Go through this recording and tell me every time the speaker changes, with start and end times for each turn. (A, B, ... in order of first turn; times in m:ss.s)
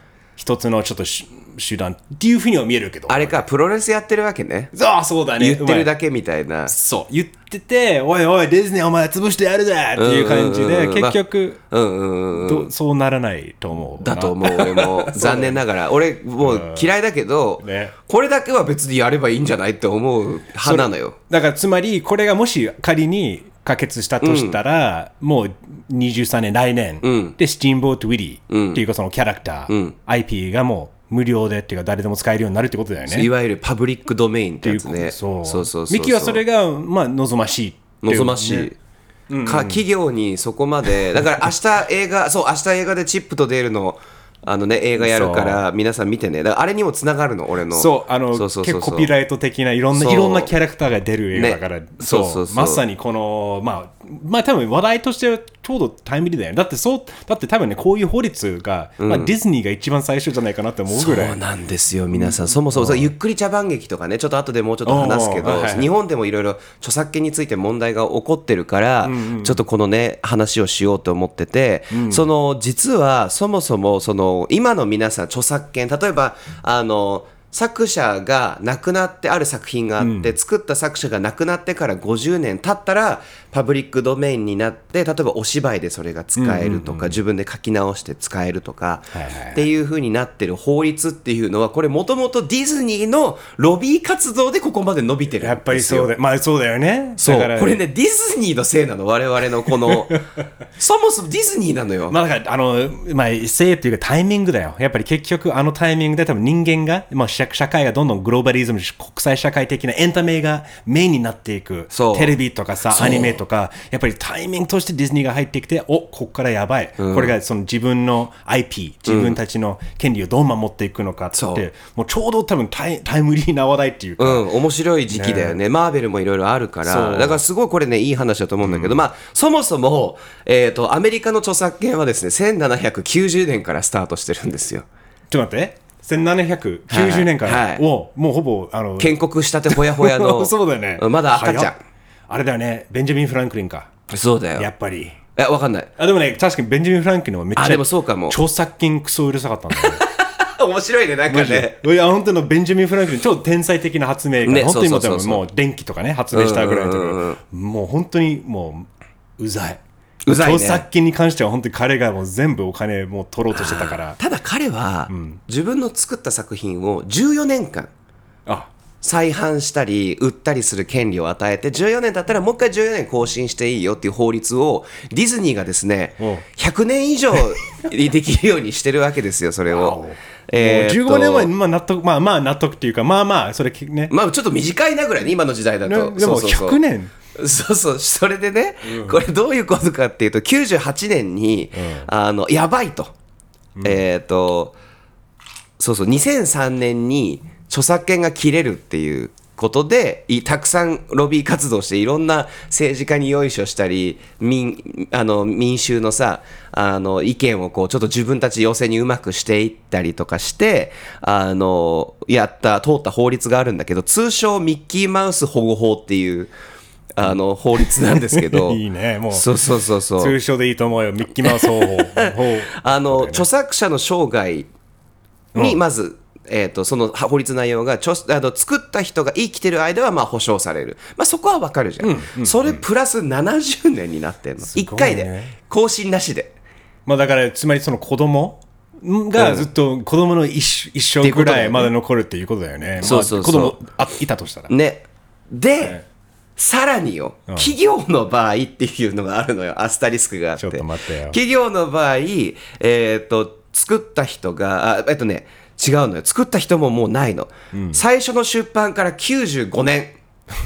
0:00.4-0:03.4 A
0:03.1-0:04.7 B
0:04.7-0:05.9 A
0:05.4-0:06.7 B
0:06.7-0:11.6 A
0:10.0-0:11.2 B
0:11.7-0:12.7 B
0:12.3-0:15.6 A
0:14.0-0:21.2 B
0:16.4-0:16.9 A
0:17.6-0:17.9 A
0:20.6-0:33.3 A
0:24.2-0:24.6 B
0:27.0-0:27.4 B
0:28.5-0:28.8 B
0:29.7-0:29.9 B
0:33.1-0:36.4 B
0:34.6-0:38.7 A
0:38.0-0:38.8 B
0:39.3-0:39.8 A
0:39.4-0:49.1 B
0:45.0-0:45.6 A
0:47.7-1:01.4 A
0:49.9-0:50.5 B
0:51.3-0:52.8 B
0:59.0-0:59.3 B
1:00.9-1:36.1 B
1:02.1-1:03.1 A
1:04.8-1:05.9 A
1:09.0-1:09.6 A
1:11.9-1:12.2 A
1:20.0-1:20.4 A
1:26.4-1:27.2 A
1:29.1-1:29.6 A
1:35.4-1:37.8 A
1:37.2-1:40.2 B
1:39.9-1:40.2 A
1:40.8-1:42.2 B
1:42.1-2:04.4 A
1:51.9-1:52.3 B
1:52.9-1:53.4 B
1:57.0-1:57.3 B
1:59.1-1:59.4 B
2:01.3-2:01.6 B
2:04.2-2:14.8 B
2:05.1-2:05.6 A
2:06.8-2:07.4 A
2:08.6-2:09.0 A
2:15.3-2:19.2 A
2:16.9-2:17.8 B
2:19.0-2:21.8 B
2:19.7-2:21.7 A
2:22.3-2:23.9 A
2:24.1-2:24.7 B
2:24.6-2:25.2 A
2:25.4-2:25.9 B
2:26.0-2:30.0 A
2:27.6-2:28.4 B
2:29.8-2:31.8 B
2:31.3-2:44.2 A
2:34.4-2:35.4 B
2:36.3-2:37.4 B
2:40.2-2:40.8 B
2:43.5-2:47.9 B
2:45.1-2:45.4 A
2:48.4-2:48.7 A
2:49.0-3:01.5 B
2:56.2-2:56.4 A
2:59.7-3:04.1 A
3:04.1-3:06.8 B
3:05.8-3:07.1 A
3:07.3-3:13.1 B
3:08.8-3:09.2 A
3:11.7-3:12.1 A
3:13.8-3:14.0 A
3:13.8-3:14.7 B
3:15.8-3:36.5 B
3:37.2-3:40.4 B
3:37.2-3:39.5 A
3:40.2-3:43.5 A
3:41.4-3:44.7 B
3:45.5-3:45.8 A
3:45.6-3:56.5 B
3:52.0-3:52.8 A
3:54.6-3:55.5 A
3:57.0-4:04.7 A
3:59.4-3:59.7 B
4:01.2-4:01.9 B
4:03.0-4:03.8 B
4:04.7-4:06.0 B
4:06.6-4:20.2 B
4:07.5-4:07.7 A
4:10.6-4:11.4 A
4:17.7-4:18.0 A